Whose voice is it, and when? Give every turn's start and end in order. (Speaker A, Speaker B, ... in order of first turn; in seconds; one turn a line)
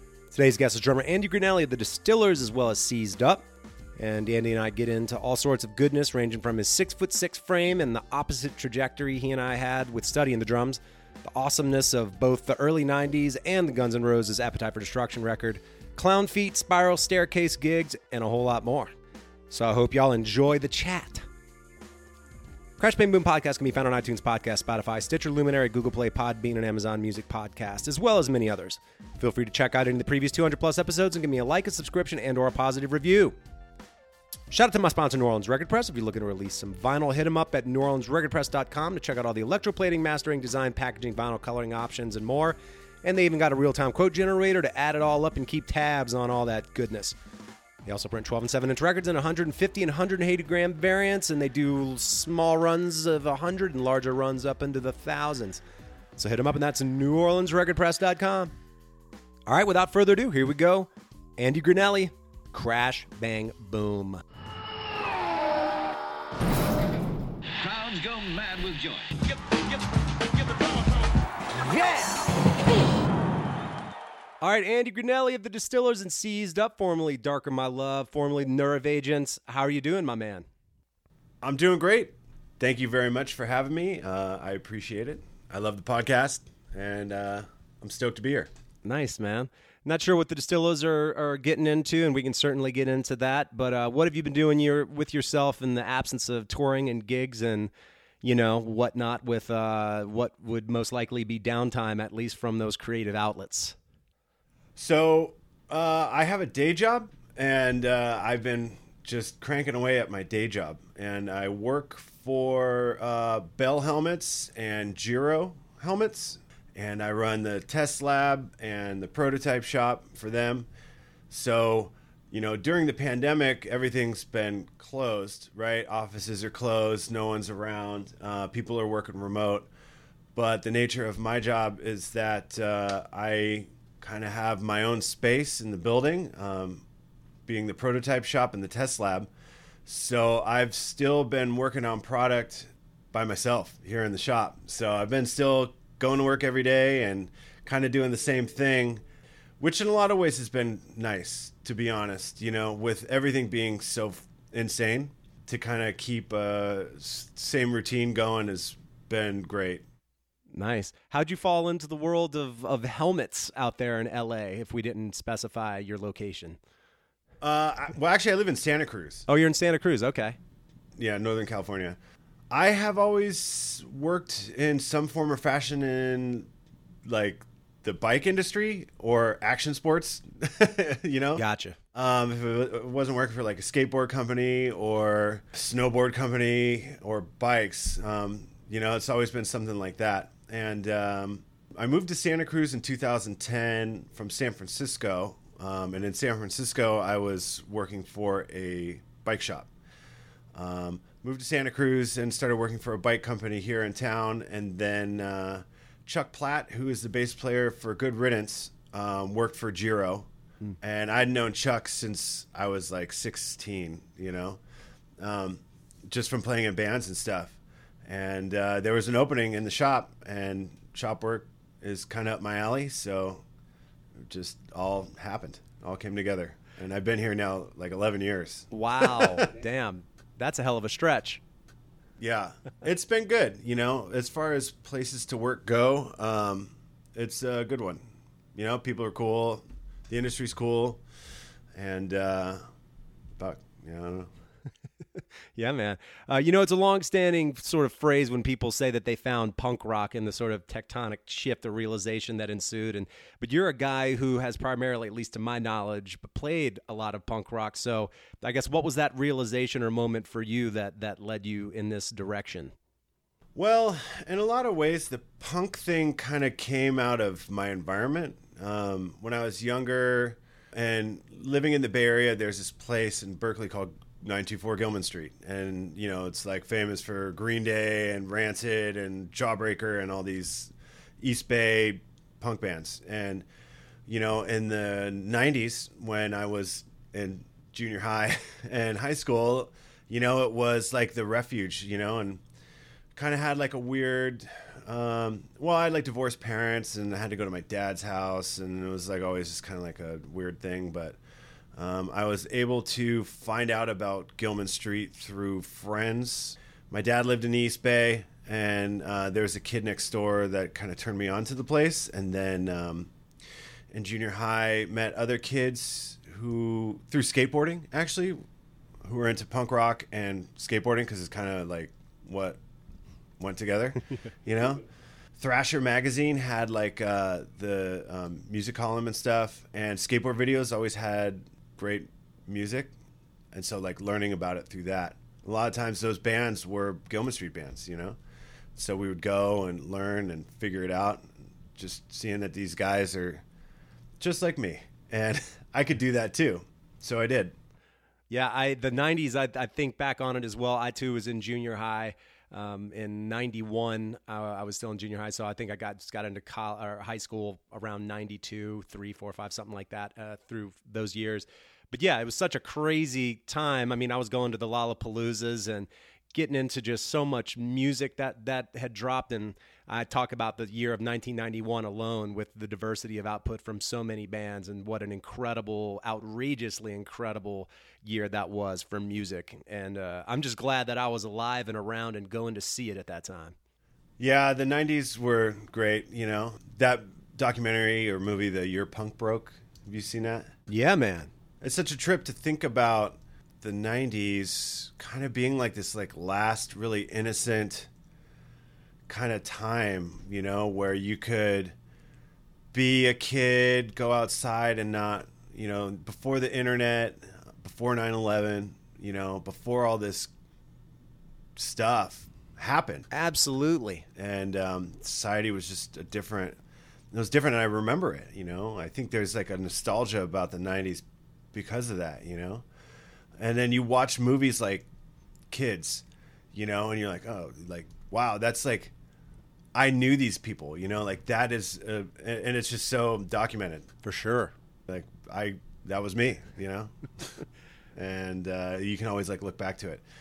Speaker A: 0.3-3.5
Speaker A: 4.0-18.9
Speaker A: 19.5-21.3
Speaker A: 22.8-33.4
Speaker A: 34.5-47.2
Speaker A: 47.9-55.6
Speaker A: 56.2-58.5
Speaker A: 59.5-64.2
Speaker B: 67.6-69.6
Speaker B: 70.4-70.9
Speaker A: 71.6-72.3
Speaker A: 74.4-80.5
Speaker C: 81.4-88.5
Speaker A: 88.8-97.7
Speaker A: 98.2-103.8
Speaker C: 104.8-120.7
Speaker C: 121.3-129.7
Speaker C: 130.3-136.9
Speaker C: 137.5-139.3
Speaker C: 139.9-149.0
Speaker C: 149.6-159.8
Speaker A: 160.5-166.6
Speaker C: 167.4-169.3
Speaker A: 169.3-170.4
Speaker C: 171.0-172.0
Speaker C: 172.5-176.5
Speaker C: 177.1-181.4
Speaker A: 181.4-181.8
Speaker C: 181.9-199.7
Speaker C: 200.5-210.3
Speaker C: 210.8-214.6
Speaker C: 215.2-223.4
Speaker C: 224.2-229.5
Speaker A: 228.7-231.4
Speaker C: 232.2-238.0
Speaker C: 238.6-241.0
Speaker C: 241.7-242.6
Speaker C: 243.4-244.3
Speaker A: 245.6-262.7
Speaker C: 263.6-283.5
Speaker C: 284.1-292.4
Speaker C: 293.2-301.2
Speaker C: 301.8-313.1
Speaker C: 313.9-318.4
Speaker C: 319.0-322.6
Speaker C: 323.4-324.8
Speaker C: 325.4-332.9
Speaker C: 333.5-338.2
Speaker C: 338.8-343.4
Speaker C: 344.2-347.6
Speaker A: 348.3-383.6
Speaker C: 384.2-390.5
Speaker A: 390.7-391.3
Speaker C: 391.6-397.9
Speaker C: 399.1-401.8
Speaker C: 402.7-410.3
Speaker C: 411.6-413.1
Speaker A: 413.1-414.1
Speaker C: 414.1-416.6
Speaker C: 417.1-422.7
Speaker C: 423.4-424.9
Speaker C: 425.5-428.9
Speaker C: 429.7-433.9
Speaker A: 434.0-434.5
Speaker C: 434.9-440.0